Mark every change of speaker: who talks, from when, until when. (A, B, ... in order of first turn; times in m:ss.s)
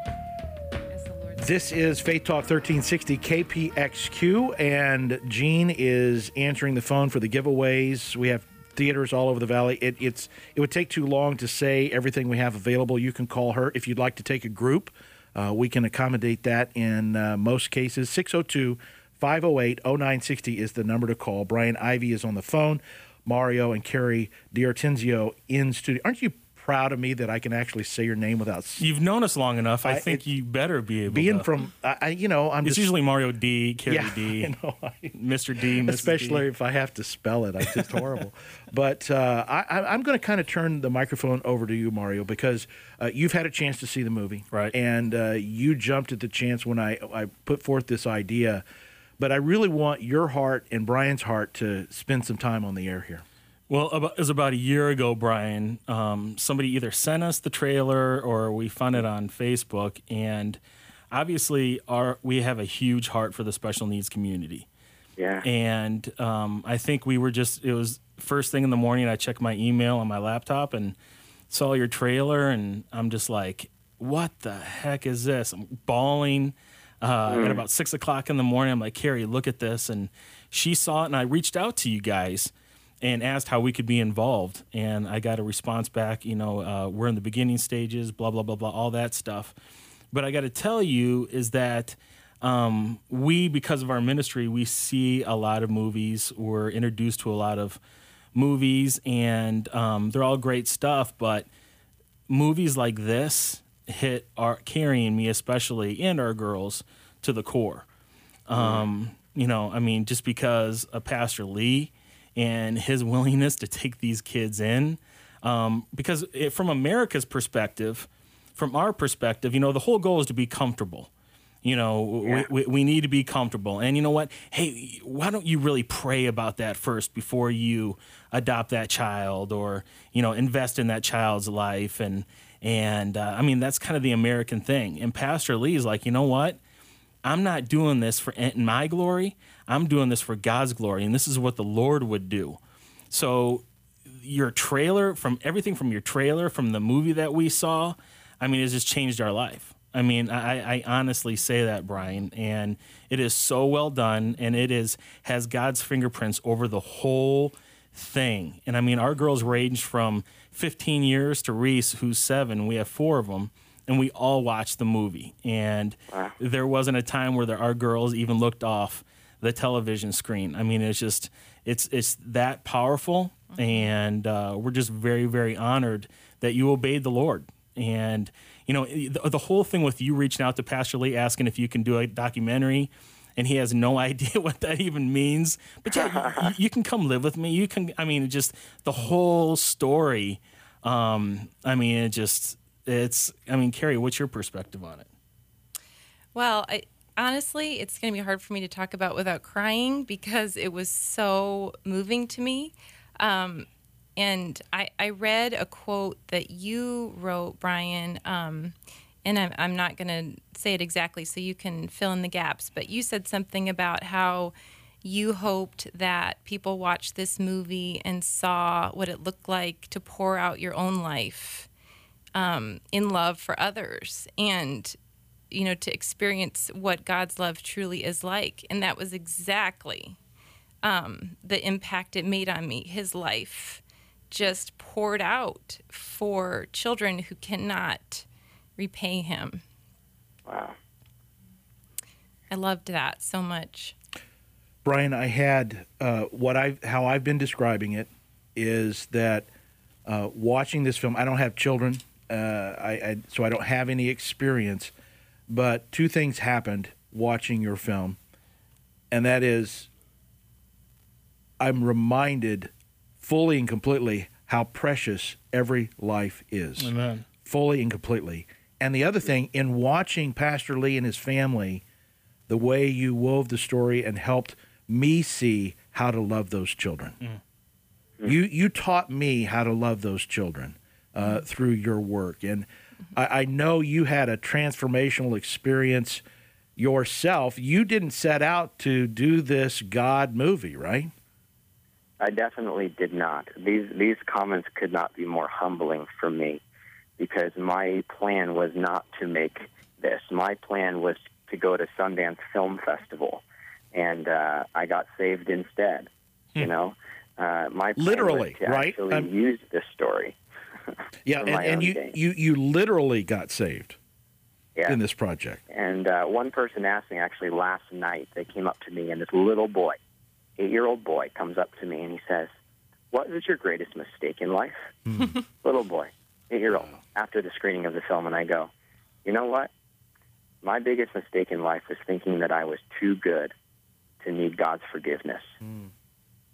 0:00.9-0:01.6 A
0:01.4-0:28.9 B
0:28.8-0:31.5 C
0:29.8-0:30.2 B
0:31.1-0:32.9 B
0:32.6-0:34.5 C
0:33.8-0:35.1 B
0:35.1-0:36.4 C
0:35.8-0:48.6 B
0:37.7-0:38.0 C
0:49.2-0:53.2 B
0:53.7-1:00.6 C
1:01.1-1:04.7 C
1:05.2-1:05.4 D
1:05.4-1:11.0 C
1:11.5-1:29.5 C
1:17.3-1:17.6 D
1:30.1-1:37.8 C
1:38.3-1:41.5 C
1:42.3-1:47.9 C
1:48.5-2:01.1 C
1:48.6-1:48.9 D
2:01.6-2:16.6 C
2:02.2-2:02.5 D
2:17.2-2:22.6 C
2:23.1-3:15.1 C
2:53.5-2:53.9 A
3:05.9-3:06.5 D
3:16.3-3:41.7 A
3:42.4-3:45.0 A
3:45.5-3:50.2 A
3:50.8-3:58.3 A
3:58.8-3:59.6 A
4:00.5-4:00.8 D
4:02.5-4:03.9 A
4:04.8-4:09.5 B
4:10.1-4:14.9 B
4:15.5-4:18.2 B
4:19.1-4:19.9 B
4:21.6-4:26.9 B
4:26.8-4:27.2 C
4:27.4-4:31.8 B
4:32.5-4:37.2 B
4:38.2-4:46.2 B
4:46.8-4:51.1 B
4:52.2-4:56.6 D
4:57.2-5:10.4 D
5:08.0-5:09.3 B
5:10.9-5:12.2 D
5:11.3-5:14.0 B
5:14.9-5:15.6 B
5:15.7-5:20.0 D
5:20.6-5:22.5 D
5:23.1-5:24.9 D
5:25.1-5:25.4 B
5:25.6-5:28.7 D
5:26.7-5:27.0 B
5:29.2-5:29.7 D
5:30.6-5:33.5 D
5:34.2-5:35.5 D